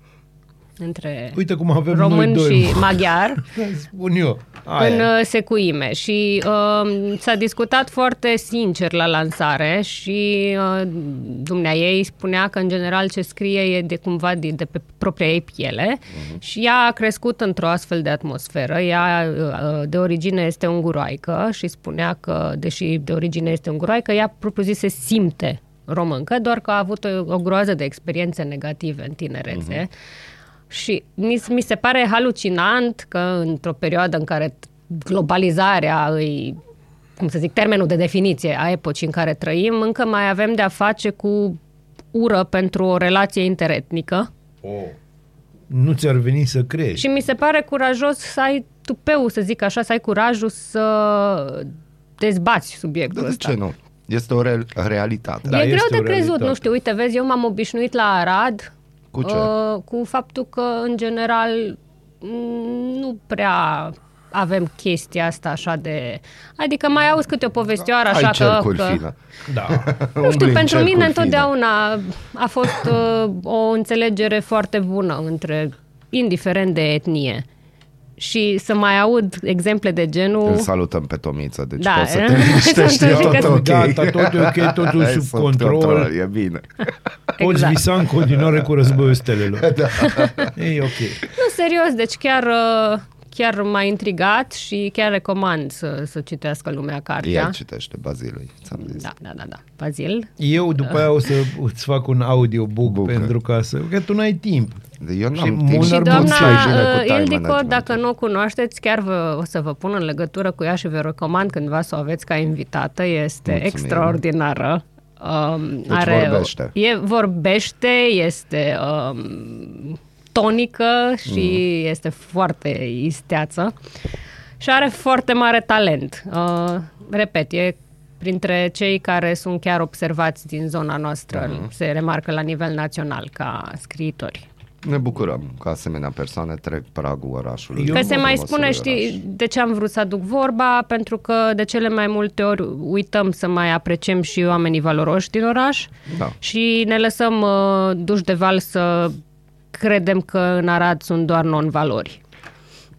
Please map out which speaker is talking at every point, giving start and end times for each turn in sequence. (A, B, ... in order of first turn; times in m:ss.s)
0:00.8-0:01.4 A
0:01.3-0:05.1 B
0:01.9-0:03.4 A
0:04.8-0:29.9 A
0:16.1-0:16.4 C
0:29.5-0:29.8 C
0:30.7-0:36.6 A
0:37.2-0:41.6 A
0:42.1-0:44.3 A
0:44.6-0:45.0 B
0:45.7-0:47.0 B
0:47.0-0:53.6 A
0:53.1-0:55.6 C
0:55.5-0:56.6 B
0:55.5-0:58.7 A
0:59.1-0:59.5 C
0:59.2-1:09.0 A
1:08.1-1:11.5 C
1:09.5-1:09.9 B
1:10.2-1:17.5 A
1:18.2-1:20.7 A
1:20.4-1:27.2 C
1:21.8-1:23.6 A
1:22.8-1:26.1 B
1:27.4-1:27.8 A
1:27.4-1:29.8 B
1:28.2-1:30.5 C
1:30.0-1:30.5 A
1:30.5-1:31.2 B
1:31.3-1:37.6 A
1:37.2-1:39.1 C
1:38.8-1:40.3 A
1:40.4-1:46.7 B
1:42.8-1:43.3 C
1:45.0-1:48.0 C
1:45.8-2:03.7 A
1:53.5-1:54.2 C
1:55.9-1:56.7 C
2:01.3-2:01.6 C
2:04.6-2:14.5 A
2:11.3-2:11.7 C
2:14.8-2:19.2 C
2:17.7-2:18.2 B
2:17.9-2:25.9 A
2:26.1-2:26.4 C
2:26.4-2:29.2 A
2:29.7-2:32.2 A